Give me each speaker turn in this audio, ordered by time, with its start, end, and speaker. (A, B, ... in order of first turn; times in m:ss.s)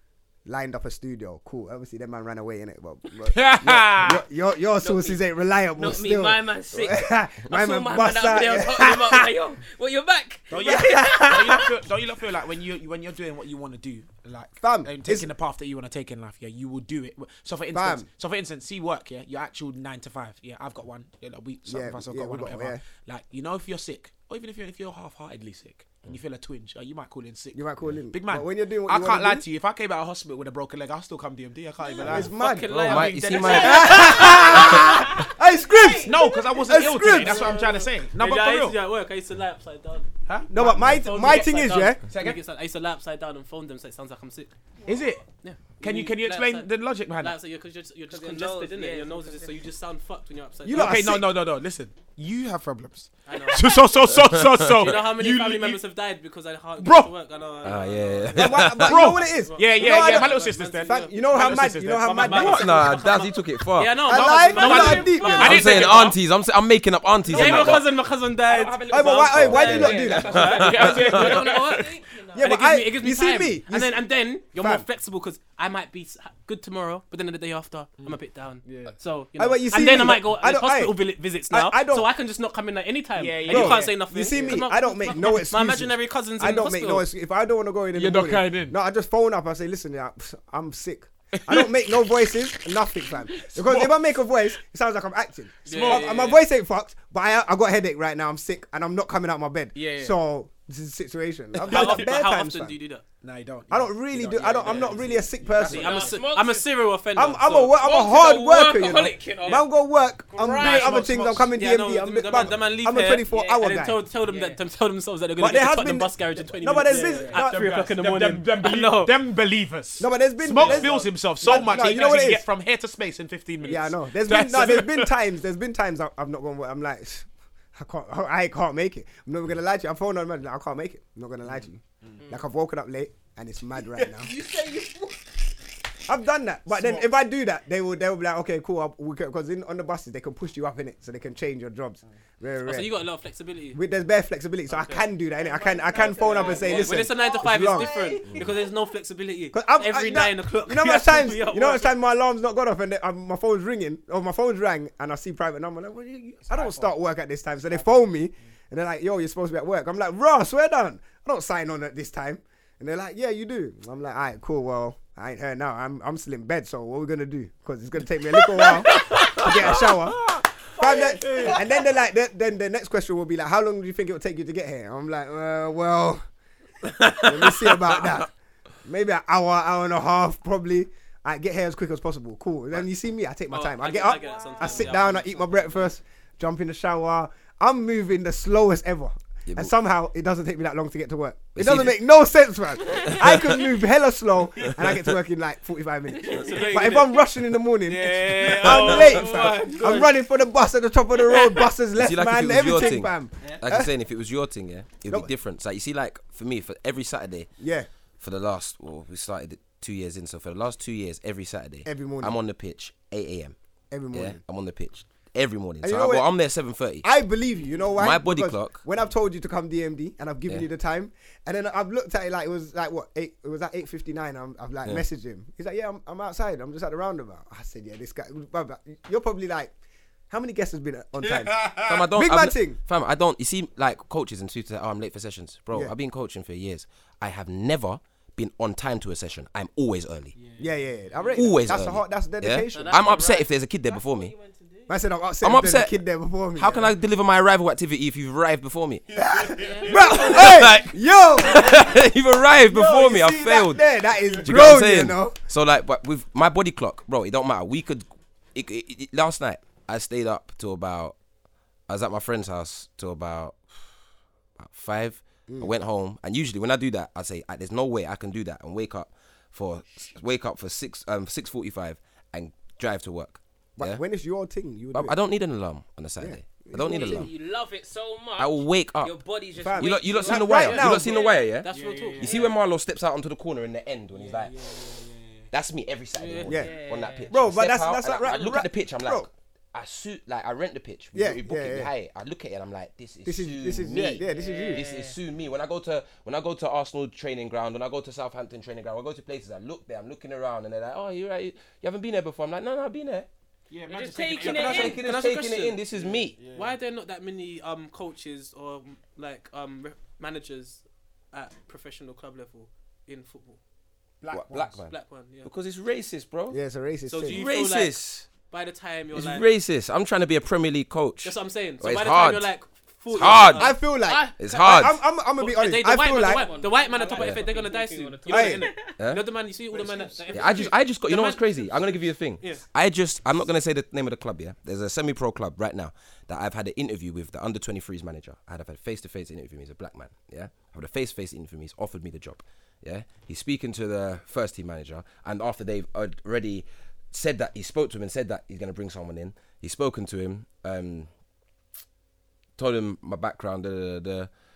0:00.5-0:09.2 A
0:03.2-0:04.2 B
0:04.8-0:11.7 C
0:10.5-0:34.7 B
0:10.6-0:11.7 A
0:14.6-0:15.3 A
0:17.7-0:18.1 A
0:21.7-0:22.8 A
0:27.5-0:29.4 A
0:31.8-0:32.2 D
0:32.0-0:32.7 A
0:32.2-0:34.8 E
0:32.7-0:34.1 F
0:33.5-0:37.6 A
0:34.1-0:36.4 D
0:36.0-0:38.8 B
0:37.1-0:44.5 E
0:40.3-0:41.5 B
0:40.5-0:42.0 A
0:42.1-0:42.4 B
0:44.8-0:45.1 D
0:44.9-0:45.2 B
0:45.4-0:51.0 E
0:45.8-0:47.4 B
0:48.1-0:49.6 C
0:50.6-0:51.3 A
0:50.7-0:55.8 B
0:53.3-0:53.8 E
0:54.8-0:58.7 E
0:56.8-0:57.1 B
0:57.6-0:59.1 F
0:58.3-1:03.0 A
0:58.8-1:02.6 B
0:59.5-1:06.2 E
1:02.4-1:04.1 F
1:04.0-1:05.6 A
1:04.2-1:06.2 B
1:05.4-1:07.9 F
1:07.3-1:27.1 E
1:07.4-1:07.6 B
1:08.5-1:09.1 B
1:08.9-1:10.5 A
1:09.3-1:11.3 F
1:10.0-1:10.6 C
1:10.3-1:11.9 B
1:11.2-1:12.5 D
1:12.3-1:14.8 A
1:18.0-1:19.0 B
1:19.4-1:22.1 A
1:23.2-1:24.6 B
1:23.5-1:42.8 A
1:28.0-1:28.8 B
1:31.4-1:31.7 B
1:33.4-1:34.2 B
1:35.7-1:36.4 B
1:35.7-1:36.4 E
1:39.8-1:40.2 B
1:41.6-1:43.0 E
1:41.7-1:42.0 B
1:43.2-1:46.2 B
1:43.7-1:46.1 A
1:44.6-1:45.0 E
1:45.6-1:47.7 E
1:45.7-1:46.8 C
1:47.2-1:54.0 A
1:47.7-1:49.6 C
1:50.3-1:51.0 C
1:50.5-1:59.2 E
1:50.8-1:51.5 B
1:53.3-1:53.6 C
1:54.2-1:54.6 C
1:55.4-1:57.7 A
1:57.3-2:05.1 B
2:00.0-2:02.4 A
2:01.4-2:02.2 E
2:03.6-2:14.3 A
2:11.5-2:12.2 B
2:14.0-2:15.5 D
2:16.1-2:23.0 A
2:16.7-2:17.0 B
2:22.6-2:23.8 E
2:23.7-2:28.0 A
2:24.7-2:25.0 E
2:25.3-2:28.8 D
2:26.2-2:31.9 E
2:29.5-2:56.2 A
2:36.5-2:36.9 B
2:51.0-2:51.5 D
2:57.2-2:58.3 A
2:58.8-3:23.9 A
3:03.5-3:05.9 E
3:03.9-3:05.2 D
3:09.5-3:09.7 F
3:11.6-3:12.0 F
3:13.0-3:13.6 F
3:16.3-3:17.2 E
3:16.5-3:16.9 B
3:17.9-3:20.0 B
3:18.0-3:20.1 E
3:22.0-3:27.5 F
3:27.6-3:27.9 A
3:28.2-3:33.6 F
3:31.8-3:32.4 A
3:33.9-3:34.4 A
3:34.1-3:37.1 F
3:35.8-3:36.3 A
3:37.0-3:49.7 A
3:38.0-3:38.8 F
3:50.3-3:52.8 A
3:51.2-3:51.9 B
3:51.7-4:00.4 F
4:00.4-4:01.4 B
4:00.6-4:03.1 A
4:01.4-4:04.3 F
4:02.7-4:03.5 E
4:03.8-4:05.0 D
4:04.9-4:06.9 A
4:05.4-4:06.0 F
4:06.6-4:09.0 F
4:09.1-4:10.3 B
4:09.3-4:11.8 A
4:09.6-4:10.3 E
4:09.6-4:10.0 D
4:10.2-4:13.8 F
4:12.7-4:15.4 A
4:14.4-4:21.2 F
4:21.9-4:23.8 F
4:24.6-4:34.0 F
4:33.8-4:35.2 A
4:34.9-4:37.3 F
4:36.2-4:37.3 A
4:36.8-4:41.6 C
4:38.4-4:39.2 F
4:39.6-4:41.2 A
4:39.8-4:44.6 F
4:41.6-4:42.4 E
4:41.7-4:42.5 B
4:42.3-4:42.6 C
4:44.1-4:45.5 B
4:45.5-5:03.3 F
4:46.1-4:46.5 E
4:46.5-4:47.4 C
4:46.5-4:49.3 A
4:51.1-4:51.9 A
4:53.2-4:54.8 A
4:54.0-4:55.2 C
5:03.7-5:05.0 B
5:03.9-5:05.0 C
5:04.4-5:05.8 E
5:04.5-5:06.4 F
5:05.9-5:06.8 B
5:06.4-5:13.6 E
5:14.2-5:14.7 B
5:14.3-5:16.6 F
5:14.9-5:15.5 E
5:16.5-5:17.4 A
5:17.1-5:19.5 E
5:17.3-5:18.3 F
5:19.1-5:22.5 F
5:21.2-5:23.8 E
5:23.1-5:25.0 F
5:23.6-5:26.5 A
5:24.0-5:24.9 C
5:25.4-5:31.8 E
5:25.8-5:29.0 C
5:27.1-5:27.5 F
5:28.3-5:28.8 A
5:29.0-5:29.3 F
5:29.7-5:30.7 B
5:30.3-5:51.1 F
5:32.4-5:32.6 E
5:52.6-5:54.3 F